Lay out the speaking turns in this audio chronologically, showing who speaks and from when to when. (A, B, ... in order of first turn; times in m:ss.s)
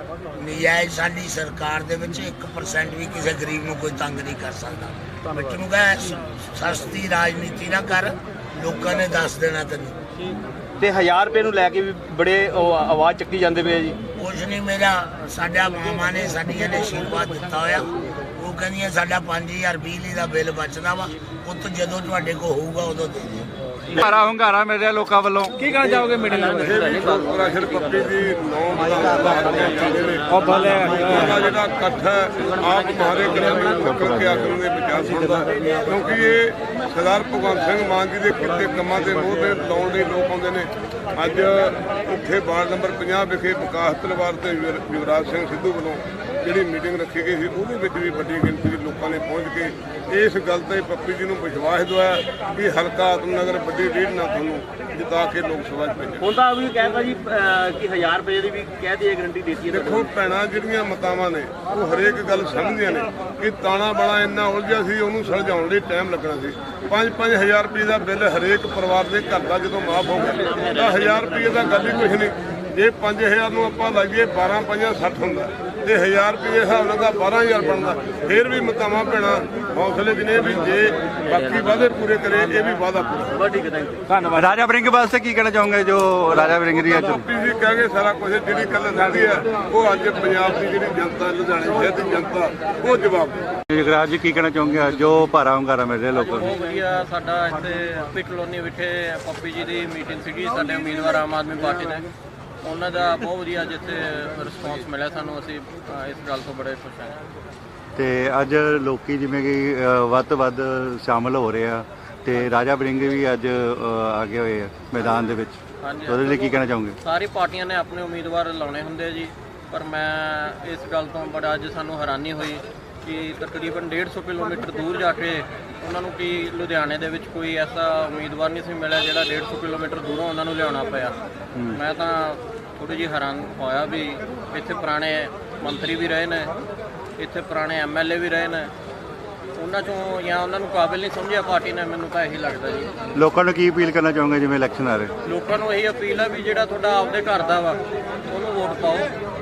0:00.4-0:10.0 A
0:10.8-0:14.0 B
0:14.2-0:23.5 A
0:24.0-0:26.4 C
0:26.4-0:56.2 D
0:56.2-1:00.1 B
0:59.7-1:23.4 D
1:23.6-1:23.9 B
1:24.1-1:27.2 C
1:26.9-1:33.4 D
1:33.7-1:36.5 C
1:36.1-1:42.1 E
1:42.6-1:47.2 E
1:48.0-1:57.0 C
1:55.8-2:11.1 E
2:11.7-2:16.5 E
2:17.2-2:18.7 E
2:19.6-2:22.9 E
2:23.1-2:25.1 C
2:25.2-2:29.1 E